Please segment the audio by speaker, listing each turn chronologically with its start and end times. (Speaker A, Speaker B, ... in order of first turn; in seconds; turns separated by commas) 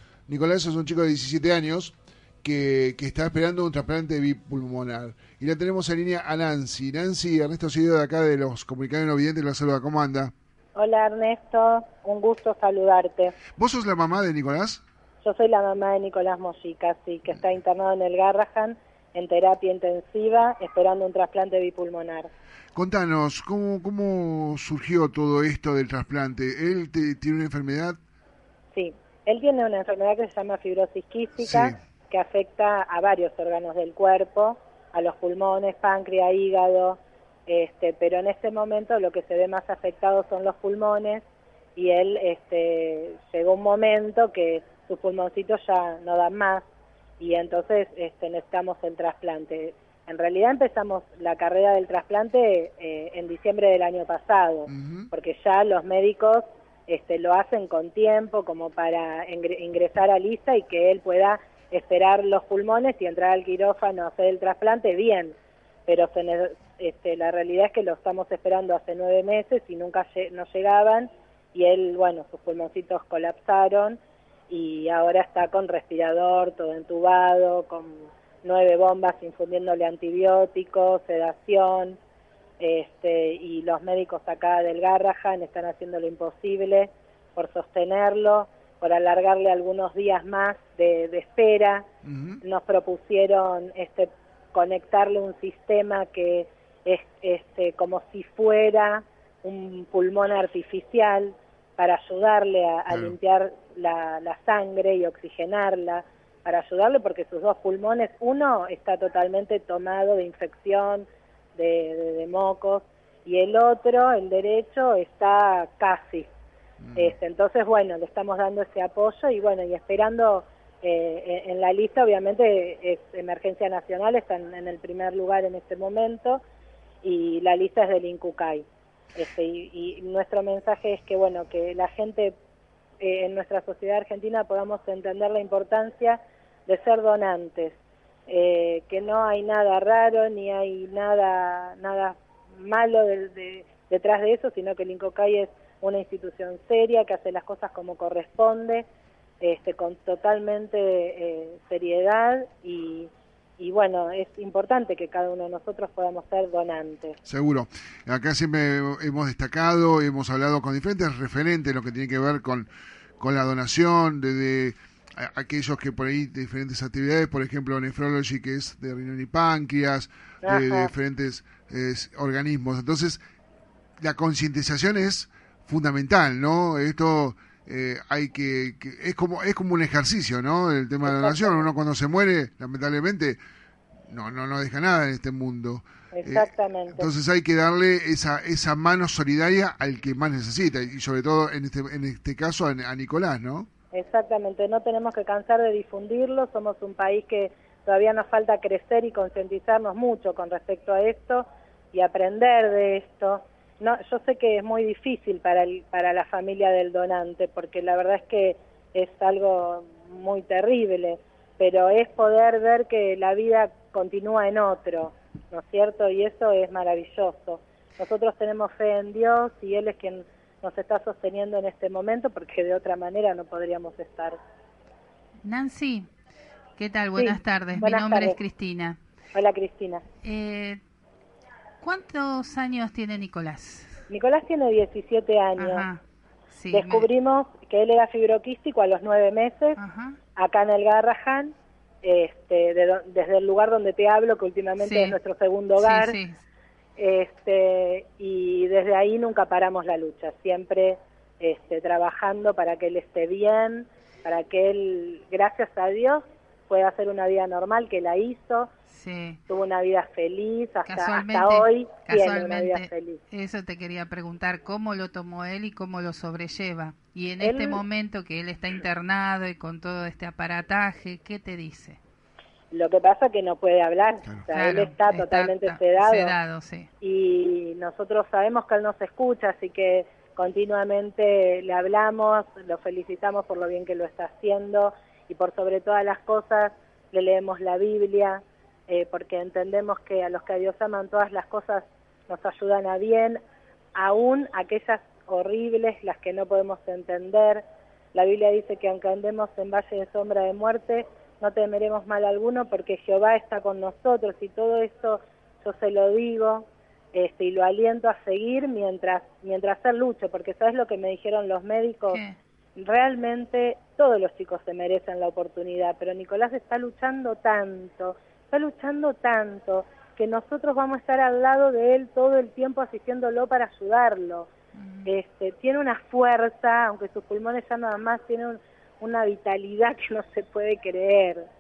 Speaker A: 0.3-10.3, Speaker B: 10.8-13.4, Speaker A: 13.5-14.8, Speaker B: 15.2-22.3, Speaker A: 22.8-28.0, Speaker B: 28.7-46.6, Speaker A: 31.4-31.8, Speaker B: 47.2-65.3, Speaker A: 54.7-55.1, Speaker B: 65.9-82.0, Speaker B: 82.6-91.9, Speaker A: 92.0-92.4, Speaker B: 92.4-116.3, Speaker A: 102.9-103.1, Speaker A: 116.8-117.1, Speaker B: 117.0-126.4, Speaker B: 127.0-132.3, Speaker B: 133.0-148.8, Speaker B: 149.4-157.2, Speaker A: 157.2-162.7, Speaker A: 163.2-173.2, Speaker B: 170.4-170.9, Speaker A: 174.0-183.4, Speaker B: 181.1-181.6, Speaker A: 184.1-193.7, Speaker B: 186.1-187.1, Speaker B: 193.9-224.4, Speaker C: 225.4-226.1, Speaker C: 226.8-229.0, Speaker B: 227.2-228.4, Speaker B: 229.3-230.0, Speaker C: 230.2-230.8, Speaker C: 231.8-234.0, Speaker B: 234.1-235.9, Speaker C: 235.6-236.0, Speaker C: 236.5-237.1, Speaker B: 236.7-239.8, Speaker C: 239.8-240.2, Speaker B: 240.3-246.2, Speaker C: 244.8-245.2, Speaker C: 245.8-246.4, Speaker B: 247.0-258.7, Speaker C: 258.9-259.4, Speaker B: 259.5-263.2, Speaker C: 260.8-272.0, Speaker B: 267.4-267.8, Speaker B: 272.7-276.4, Speaker C: 274.5-276.9, Speaker B: 277.0-293.4, Speaker B: 293.9-312.2, Speaker C: 312.1-312.4, Speaker B: 312.8-324.5, Speaker C: 324.8-325.2, Speaker B: 325.1-331.4